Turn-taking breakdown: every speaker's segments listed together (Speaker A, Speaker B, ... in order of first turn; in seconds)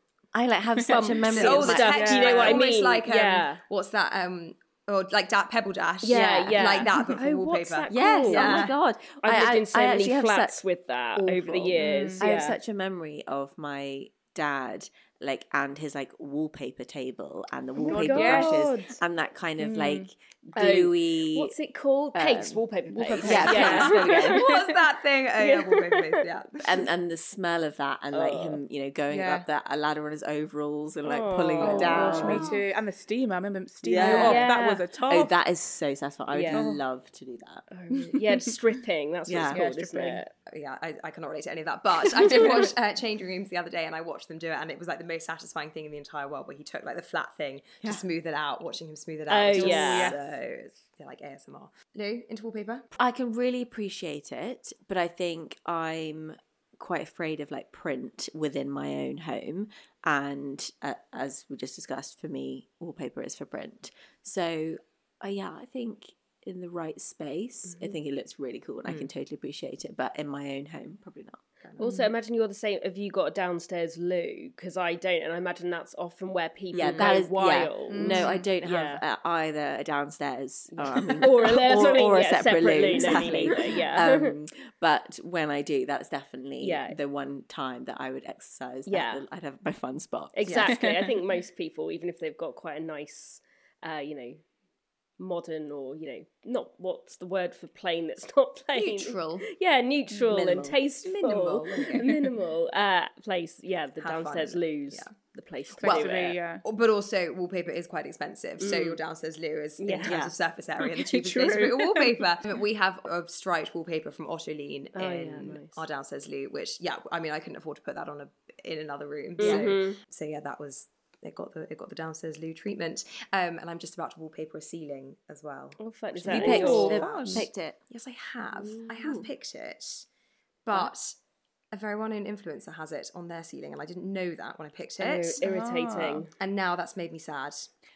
Speaker A: 0.3-2.3, 6.1-6.6, 7.9-10.6, 11.2-21.5, 22.1-22.6, 23.2-24.4, 26.6-32.5, 33.8-34.5, 35.1-37.6, 39.3-39.6, 53.0-71.4, 76.7-90.6, 100.3-100.8, 110.0-110.3, 119.4-119.7, 126.3-127.8
Speaker B: 0.8-3.6, 6.0-8.7, 9.2-12.6, 17.9-18.7, 20.6-24.5, 25.4-26.2, 28.1-28.6, 31.0-32.5, 33.9-34.8, 36.3-36.6, 37.7-40.3, 49.3-50.1, 71.8-79.0, 81.0-84.3, 86.6-87.0, 88.9-89.2, 90.3-94.4, 95.2-106.4, 108.6-109.0, 109.8-110.1, 114.9-115.8, 119.4-120.0, 125.8-127.4, 135.0-136.3
Speaker C: 0.8-2.5, 11.8-12.2, 17.8-19.0, 19.6-20.1, 23.0-24.3, 29.1-29.4, 31.6-35.3, 36.5-36.8, 38.0-38.5, 39.5-40.2, 49.5-50.2, 71.8-72.1, 77.9-78.4, 90.7-91.2, 105.8-106.6, 110.8-112.2, 126.4-127.4, 135.4-136.3
Speaker D: 1.3-8.7, 23.1-26.8, 40.5-52.9, 90.5-90.7, 98.7-99.5, 101.0-102.1, 104.0-105.1, 105.8-106.1, 106.6-130.1, 130.6-131.2, 131.7-135.4, 136.4-137.7